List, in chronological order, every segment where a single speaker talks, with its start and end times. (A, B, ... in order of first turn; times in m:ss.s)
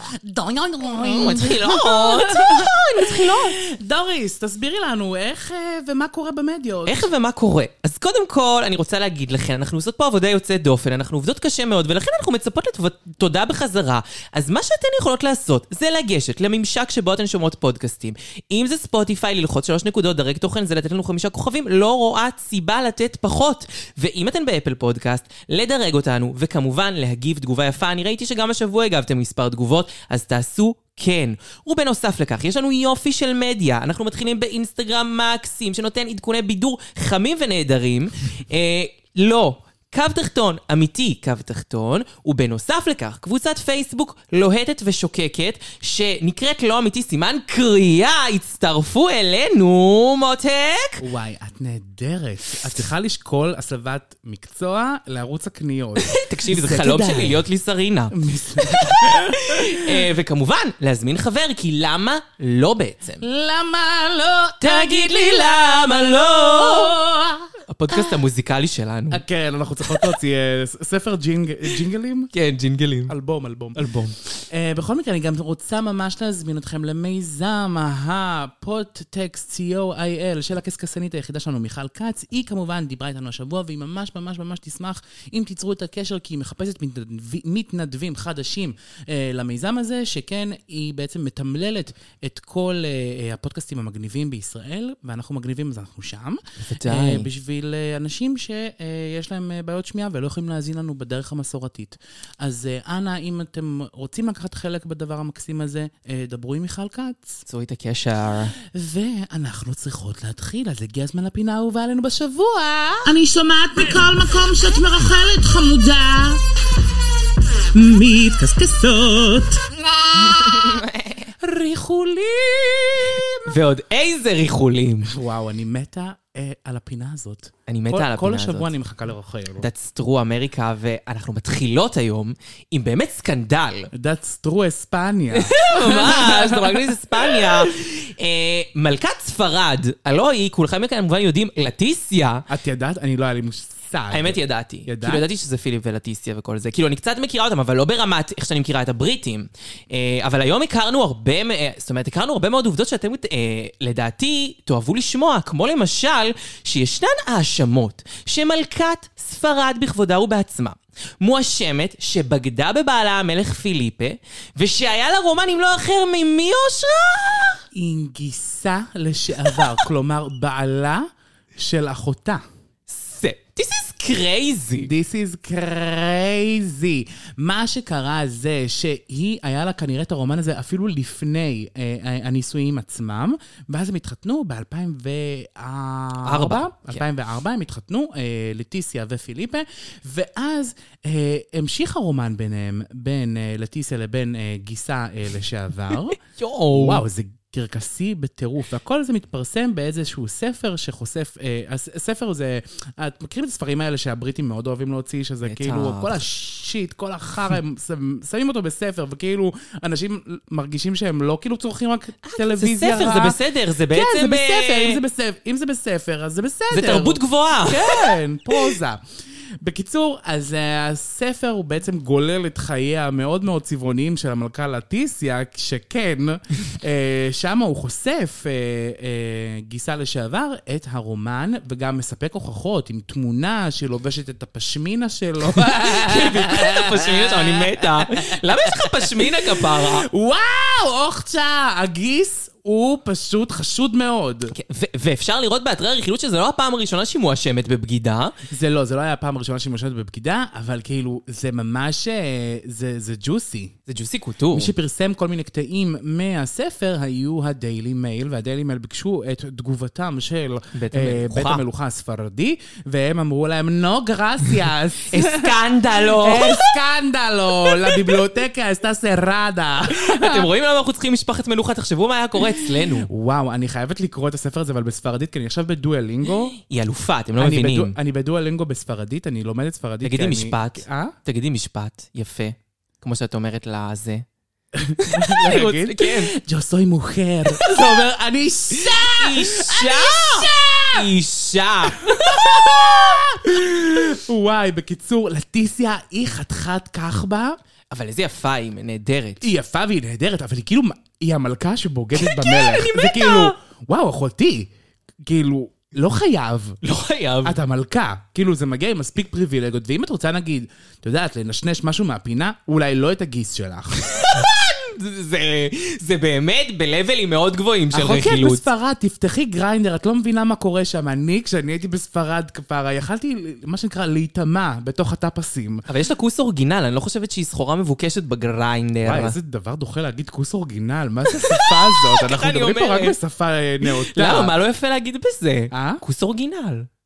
0:00.3-0:01.6 A
0:00.6-0:07.0 B
0:01.0-0:03.6 C
0:06.9-0:51.0 C
0:51.0-0:57.5 B
0:56.0-1:03.2 C
0:58.1-1:00.0 B
1:03.2-1:08.2 B
1:04.6-1:07.0 C
1:07.7-1:09.2 C
1:09.1-1:12.3 B
1:12.3-1:13.1 C
1:13.1-1:47.4 B
1:36.6-1:37.3 C
1:47.5-1:48.6 C
1:48.6-1:53.1 B
1:53.0-1:56.4 A
1:57.7-2:00.8 A
2:00.4-2:01.3 C
2:01.4-2:03.5 B
2:03.4-2:05.1 C
2:05.0-2:09.7 B
2:07.7-2:08.7 C
2:09.6-2:13.9 C
2:13.9-2:17.7 B
2:15.3-2:22.4 C
2:22.5-2:25.2 B
2:24.1-2:47.6 C
2:47.7-2:51.0 B
2:51.6-2:52.4 B
2:52.9-2:54.9 C
2:54.8-3:16.2 B
3:06.2-3:07.0 C
3:16.3-3:17.0 C
3:16.7-3:39.0 B
3:25.5-3:26.2 C
3:32.2-3:35.0 C
3:36.7-3:38.7 C
3:39.6-4:04.5 B
3:55.6-4:00.1 C
4:04.5-4:08.4 C
4:08.5-4:13.8 B
4:13.9-4:14.7 C
4:14.5-4:30.5 B
4:20.7-4:21.6 C
4:25.1-4:26.7 C
4:27.7-4:28.2 C
4:29.9-4:33.1 C
4:32.5-4:36.6 B
4:36.6-4:38.0 C
4:37.4-4:41.1 B
4:40.0-4:44.2 C
4:44.7-4:51.1 B
4:45.0-4:46.3 C
4:47.5-4:48.0 C
4:48.7-4:52.1 C
4:52.0-4:57.6 B
4:57.9-4:59.4 C
4:59.4-5:04.7 B
5:02.2-5:03.6 C
5:05.2-5:06.8 B
5:06.8-5:07.6 C
5:07.4-5:14.4 B
5:14.2-5:18.7 C
5:17.9-5:25.8 B
5:25.9-5:29.4 C
5:29.0-5:34.6 B
5:31.3-5:33.1 C
5:33.8-5:36.9 C
5:35.7-5:36.0 B